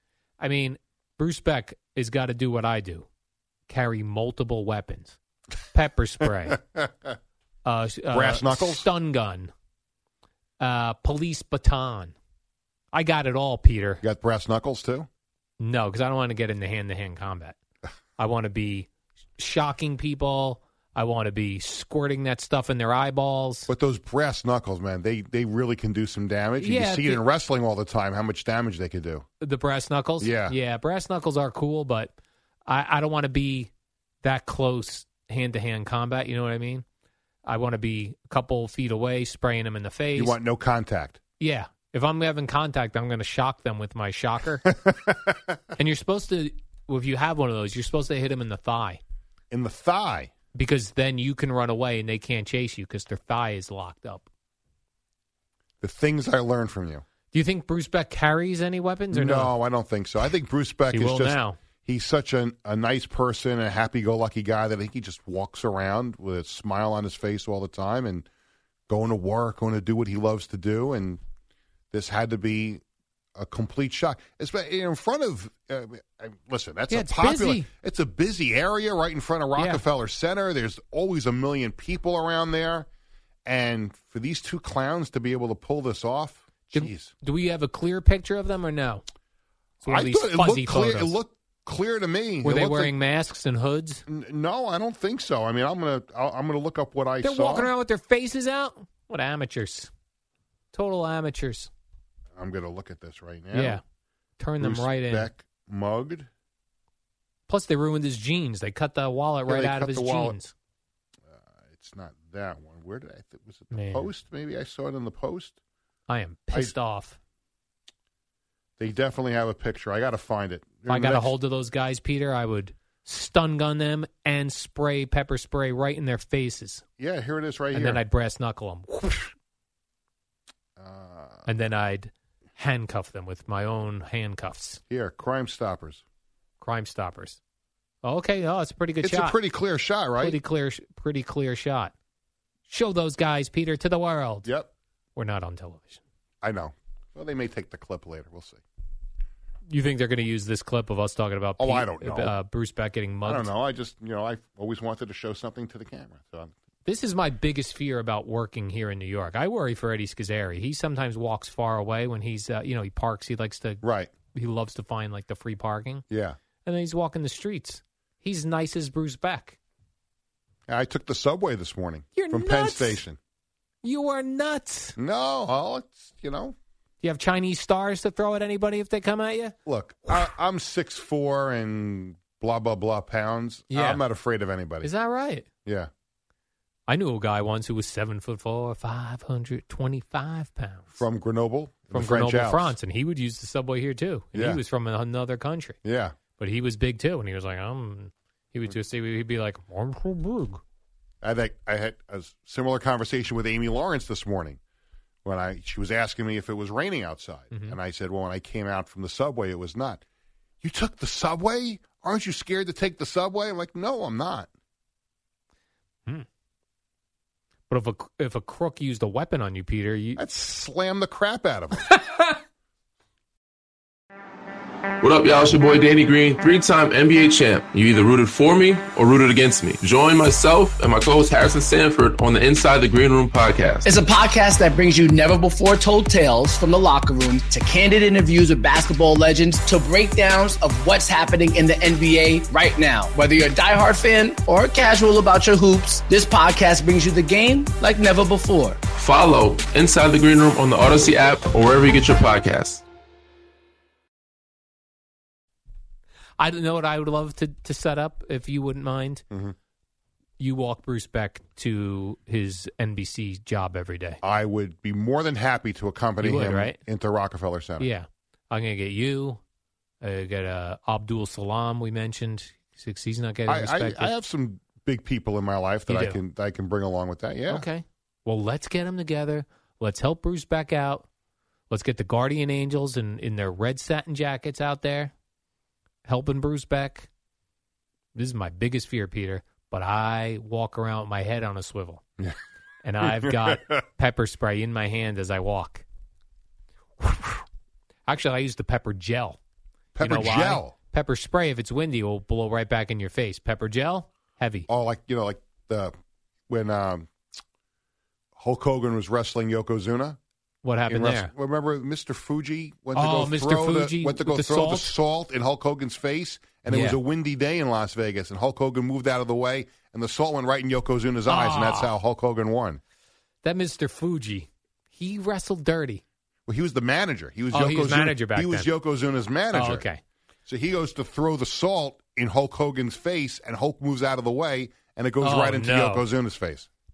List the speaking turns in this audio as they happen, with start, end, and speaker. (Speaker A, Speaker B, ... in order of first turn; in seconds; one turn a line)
Speaker A: 0.4-3.1
Speaker A: 3.7-5.2
Speaker A: 5.7-6.6
Speaker A: 7.6-9.5
Speaker B: 8.1-8.9
Speaker A: 10.6-12.1
Speaker A: 12.9-14.0
Speaker B: 14.0-15.1
Speaker A: 15.6-17.6
Speaker A: 18.2-23.7
Speaker B: 23.7-29.2
Speaker A: 26.6-27.2
Speaker A: 29.4-32.1
Speaker B: 30.2-30.6
Speaker A: 32.6-33.7
Speaker A: 34.2-36.8
Speaker A: 37.4-40.4
Speaker B: 40.1-41.2
Speaker A: 41.4-44.7
Speaker B: 44.9-45.3
Speaker A: 45.7-49.0
Speaker B: 49.5-50.3
Speaker A: 50.5-54.3
Speaker B: 55.8-57.0
Speaker A: 57.3-59.5
Speaker B: 59.1-68.3
Speaker A: 60.9-61.6
Speaker B: 68.9-71.2
Speaker B: 71.9-72.8
Speaker B: 73.3-82.9
Speaker A: 76.9-77.7
Speaker A: 79.5-79.8
Speaker B: 83.4-87.1
Speaker A: 86.7-89.0
Speaker A: 89.8-91.2
Speaker B: 89.8-92.9
Speaker A: 92.4-94.0
Speaker B: 94.1-97.7
Speaker A: 97.2-99.9
Speaker A: 100.7-101.7
Speaker B: 102.3-103.8
Speaker A: 103.5-103.8
Speaker A: 104.4-105.3
Speaker B: 104.6-106.3
Speaker A: 107.5-110.5
Speaker B: 109.5-110.4
Speaker B: 111.3-115.6
Speaker A: 113.7-114.1
Speaker A: 116.1-117.2
Speaker B: 118.8-121.3
Speaker A: 120.9-126.8
Speaker B: 127.0-128.0
Speaker A: 127.7-129.3
Speaker B: 130.8-131.5
Speaker A: 131.4-134.8
Speaker B: 134.9-136.0
Speaker A: 136.6-137.4
Speaker A: 138.0-139.4
Speaker B: 139.0-140.4
Speaker A: 140.2-141.9
Speaker A: 142.7-144.5
Speaker A: 145.1-146.0
Speaker B: 146.4-148.6
Speaker A: 149.7-153.5
Speaker B: 151.6-152.3
Speaker B: 153.2-156.5
Speaker A: 156.8-166.0
Speaker B: 163.8-164.1
Speaker B: 166.1-166.4
Speaker A: 166.6-169.6
Speaker B: 170.7-173.2
Speaker A: 172.1-173.0
Speaker A: 173.8-174.9
Speaker B: 175.0-176.5
Speaker A: 177.0-179.5
Speaker B: 179.7-184.9
Speaker A: 183.7-184.0
Speaker A: 184.8-185.4
Speaker B: 185.6-185.9
Speaker A: 186.9-191.0
Speaker B: 190.9-192.8
Speaker A: 191.9-195.8
Speaker B: 194.3-194.6
Speaker B: 195.8-196.2
Speaker A: 196.4-200.6
Speaker B: 201.2-204.6
Speaker B: 205.2-210.0
Speaker A: 207.5-207.8
Speaker B: 210.6-214.5
Speaker A: 217.7-220.2
Speaker B: 220.2-222.0
Speaker A: 221.9-222.3
Speaker C: 225.0-233.9
Speaker D: 233.8-248.8
Speaker C: 248.9-252.8
Speaker A: 256.4-259.2
Speaker B: 259.3-259.6
Speaker A: 260.4-264.2
Speaker B: 264.2-267.9
Speaker A: 266.2-266.8
Speaker A: 267.8-269.4
Speaker A: 270.0-274.1
Speaker B: 273.5-277.6
Speaker A: 275.9-276.2
Speaker A: 277.5-281.1
Speaker A: 281.7-285.1
Speaker A: 286.0-287.1
Speaker A: 288.1-292.0
Speaker A: 292.8-295.8
Speaker B: 293.0-293.7
Speaker A: 297.0-297.4
Speaker A: 298.1-299.4
Speaker B: 299.9-300.7
Speaker A: 300.0-304.7
Speaker B: 304.7-305.9
Speaker B: 306.5-307.1
Speaker B: 308.4-310.2
Speaker A: 310.6-311.3
Speaker B: 310.9-322.8
Speaker A: 312.9-314.9
Speaker A: 316.7-317.0
Speaker A: 321.2-322.0
Speaker A: 323.4-326.0
Speaker B: 326.5-329.8
Speaker A: 327.5-328.7
Speaker A: 329.5-330.0
Speaker B: 330.5-336.7
Speaker A: 335.2-336.1